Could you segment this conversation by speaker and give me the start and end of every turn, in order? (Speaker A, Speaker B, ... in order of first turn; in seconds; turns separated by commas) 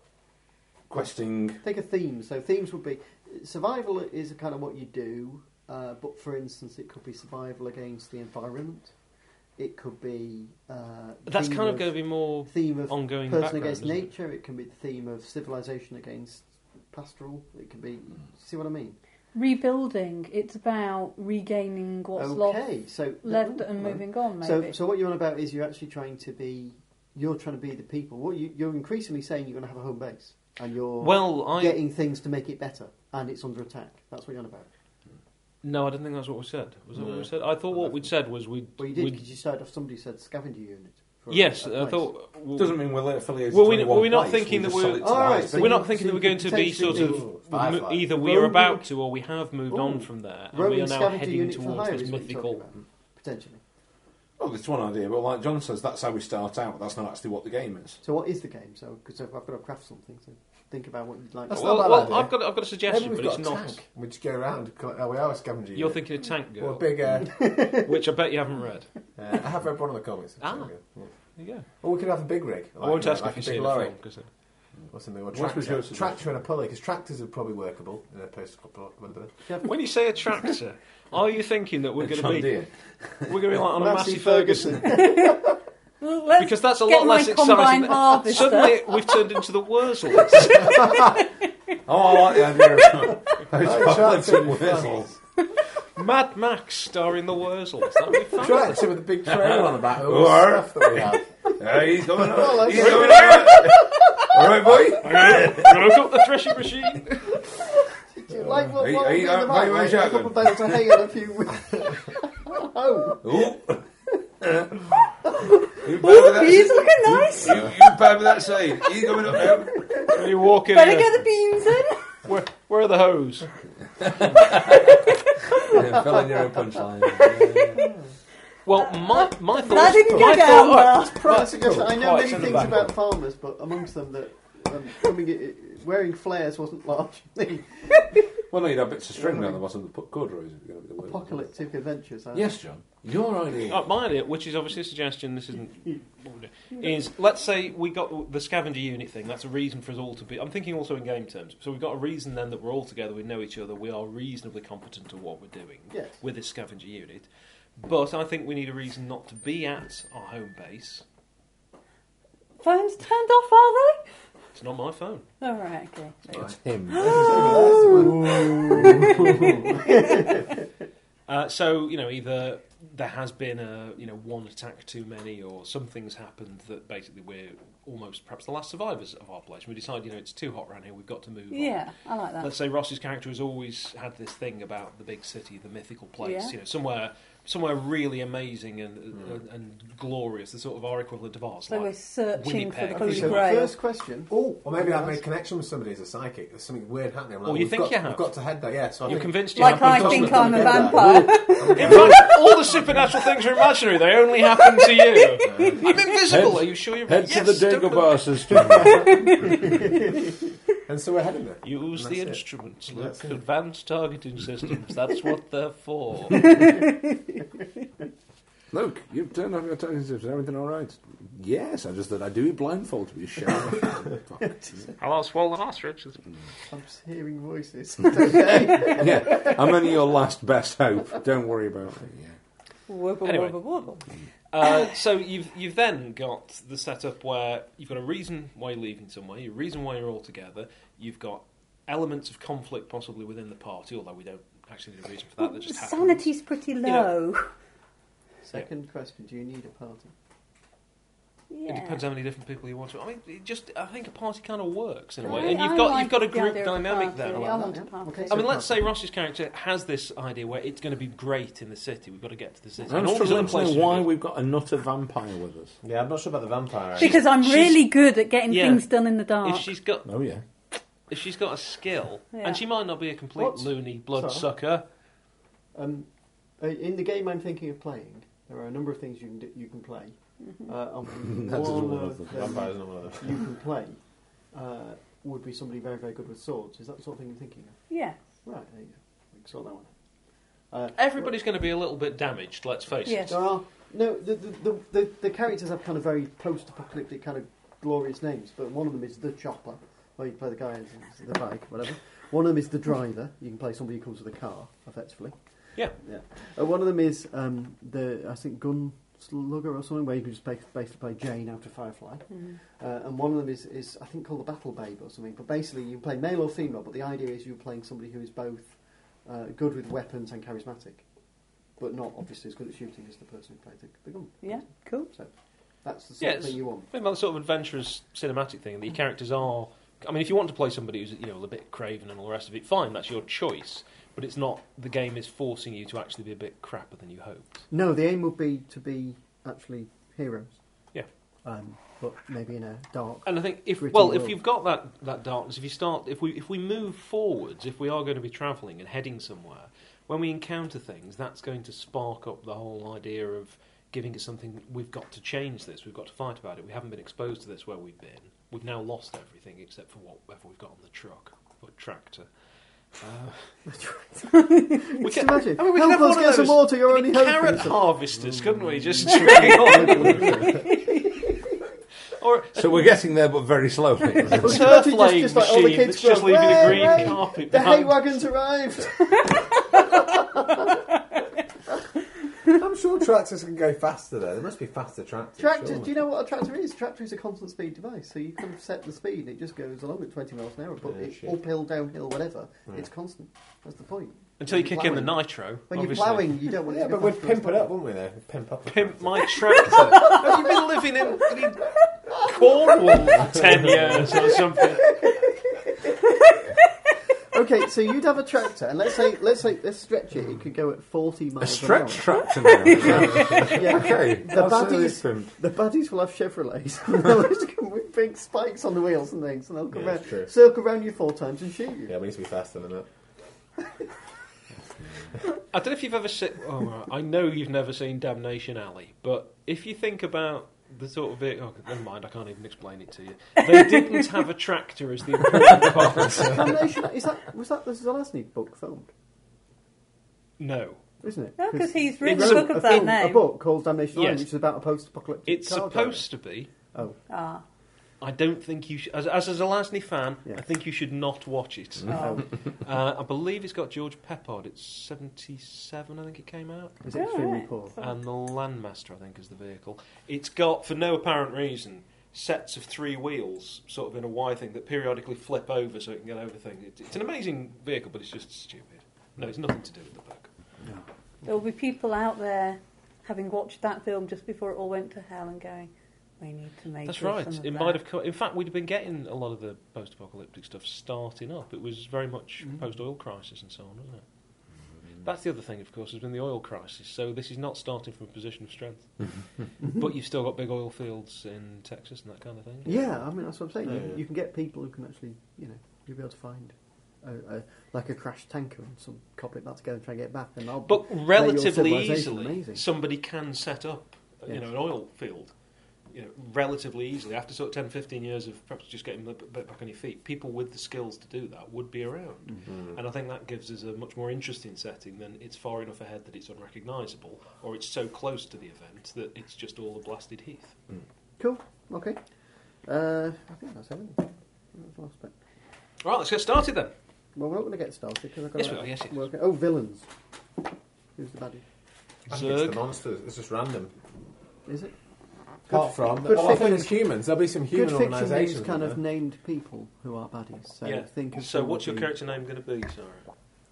Speaker A: 0.9-1.6, Speaker B: 1.6-8.9, Speaker B: 9.6-19.0, Speaker C: 11.2-14.1, Speaker D: 19.3-22.6, Speaker B: 22.1-34.7, Speaker D: 23.2-24.8, Speaker C: 31.0-31.8, Speaker C: 35.6-39.2, Speaker E: 37.0-37.2, Speaker B: 38.8-42.1, Speaker C: 41.3-42.8, Speaker A: 42.5-45.7, Speaker C: 43.5-52.6, Speaker B: 45.0-47.3, Speaker E: 46.8-48.1, Speaker B: 48.1-48.9, Speaker B: 49.7-53.6, Speaker A: 54.4-58.0, Speaker B: 58.0-62.2, Speaker E: 61.5-66.0, Speaker C: 61.5-63.8, Speaker C: 65.7-68.9, Speaker E: 66.6-67.4, Speaker B: 67.2-68.0, Speaker E: 69.2-71.1, Speaker C: 70.4-70.7, Speaker C: 71.3-71.7, Speaker E: 71.7-74.0, Speaker C: 72.8-74.3, Speaker E: 74.9-79.3, Speaker A: 75.3-76.3, Speaker B: 79.4-79.7, Speaker C: 79.6-82.6, Speaker A: 82.0-83.3, Speaker C: 83.2-85.0, Speaker B: 83.7-85.5, Speaker D: 84.9-85.4, Speaker D: 86.0-89.3, Speaker C: 86.4-90.9, Speaker D: 90.4-91.2, Speaker A: 91.8-95.1, Speaker E: 93.5-95.1, Speaker C: 96.0-98.8, Speaker E: 98.3-101.3, Speaker A: 99.2-106.0, Speaker E: 102.3-103.2, Speaker B: 102.3-103.7, Speaker C: 102.7-103.7, Speaker C: 105.0-107.4, Speaker B: 108.1-113.5, Speaker A: 108.5-111.0, Speaker A: 113.2-113.8, Speaker A: 114.4-115.0, Speaker A: 115.8-120.1, Speaker D: 115.8-118.0, Speaker C: 120.1-121.2, Speaker D: 120.7-122.2, Speaker C: 122.2-123.5, Speaker A: 124.0-125.0, Speaker A: 125.5-127.8, Speaker C: 128.6-132.9, Speaker D: 129.6-131.3, Speaker B: 129.8-138.2, Speaker A: 132.2-132.9, Speaker A: 138.5-141.5, Speaker B: 139.2-139.6, Speaker B: 141.1-142.5, Speaker A: 142.3-143.9, Speaker C: 143.7-161.0, Speaker B: 155.9-156.2, Speaker D: 162.6-164.1, Speaker C: 164.5-165.3, Speaker D: 165.4-170.3, Speaker A: 166.3-167.4, Speaker E: 166.4-169.9, Speaker B: 167.8-168.8, Speaker C: 171.3-181.9, Speaker D: 181.5-182.5, Speaker C: 182.4-193.5, Speaker D: 186.2-186.5, Speaker D: 191.7-193.7, Speaker B: 192.9-195.2, Speaker E: 194.5-202.3, Speaker C: 197.4-198.3, Speaker C: 199.0-201.1, Speaker D: 199.5-202.2, Speaker C: 201.7-208.3, Speaker A: 201.7-202.1, Speaker D: 205.4-205.9, Speaker E: 205.4-205.9, Speaker A: 206.3-209.6, Speaker D: 208.8-209.6, Speaker E: 209.7-209.9, Speaker E: 210.8-213.4, Speaker C: 211.6-216.6, Speaker D: 216.6-216.9, Speaker A: 218.7-224.9, Speaker C: 225.0-226.2, Speaker B: 226.7-229.9, Speaker A: 228.7-232.3, Speaker D: 232.9-234.0, Speaker C: 233.2-234.0, Speaker C: 234.5-246.3, Speaker D: 245.4-247.5, Speaker C: 246.8-247.1, Speaker B: 248.4-250.1, Speaker D: 251.5-252.0, Speaker C: 251.7-257.7, Speaker D: 255.2-258.4, Speaker B: 257.3-258.8, Speaker C: 258.3-264.1, Speaker A: 262.9-265.8, Speaker E: 265.8-267.3, Speaker C: 267.0-267.9, Speaker D: 267.0-269.7, Speaker C: 268.5-270.1, Speaker A: 270.0-270.4, Speaker C: 271.1-274.9, Speaker D: 272.3-272.6, Speaker B: 273.4-274.5, Speaker B: 275.7-276.1, Speaker B: 276.6-284.0, Speaker A: 281.2-282.4, Speaker E: 282.3-283.4, Speaker B: 284.5-287.8, Speaker D: 287.9-288.2, Speaker B: 288.4-289.9, Speaker B: 290.7-291.3, Speaker C: 290.9-293.4, Speaker D: 293.1-293.4, Speaker B: 293.3-305.4, Speaker B: 305.9-321.0, Speaker B: 321.8-325.3, Speaker D: 324.4-325.1, Speaker B: 325.8-326.9, Speaker C: 326.2-337.6, Speaker B: 337.7-340.6, Speaker B: 341.4-344.4, Speaker C: 343.2-362.3, Speaker C: 363.0-363.5, Speaker B: 363.7-367.9, Speaker D: 364.5-364.9, Speaker C: 365.0-370.6, Speaker B: 369.0-371.6, Speaker C: 372.1-372.9, Speaker A: 372.5-374.6, Speaker B: 374.3-380.7, Speaker C: 374.4-378.3, Speaker E: 382.5-385.9, Speaker B: 385.4-397.7, Speaker E: 390.8-391.4, Speaker C: 394.4-396.5, Speaker E: 396.6-399.4, Speaker C: 398.7-404.9, Speaker B: 402.6-404.3, Speaker B: 405.0-406.1, Speaker B: 407.3-421.9, Speaker A: 411.4-415.3, Speaker D: 412.5-413.5, Speaker E: 419.7-420.3, Speaker E: 421.9-422.9, Speaker C: 425.5-436.6, Speaker D: 433.5-434.0, Speaker B: 436.1-438.9, Speaker C: 440.4-440.8, Speaker B: 441.0-446.1, Speaker D: 441.4-443.3, Speaker C: 442.0-442.9, Speaker C: 443.9-444.3, Speaker C: 445.2-446.5, Speaker B: 446.7-447.0, Speaker D: 447.1-447.4, Speaker C: 448.0-456.8, Speaker D: 451.9-452.2, Speaker B: 451.9-452.3, Speaker B: 456.8-457.7, Speaker D: 456.9-457.9, Speaker C: 457.8-470.3, Speaker D: 471.2-477.8, Speaker C: 476.8-484.0, Speaker C: 485.0-489.1, Speaker C: 489.6-493.0, Speaker B: 492.6-502.6, Speaker E: 493.6-494.0, Speaker C: 500.6-505.3, Speaker C: 505.9-520.5, Speaker B: 521.2-522.0, Speaker B: 522.6-525.1, Speaker C: 525.8-526.7, Speaker B: 527.1-529.9, Speaker C: 528.4-529.0, Speaker B: 531.0-531.4, Speaker C: 532.1-532.6, Speaker E: 532.1-533.7, Speaker B: 534.5-534.7, Speaker B: 535.5-536.8, Speaker E: 535.5-538.8, Speaker A: 536.1-536.5, Speaker B: 537.5-541.9, Speaker C: 540.6-543.0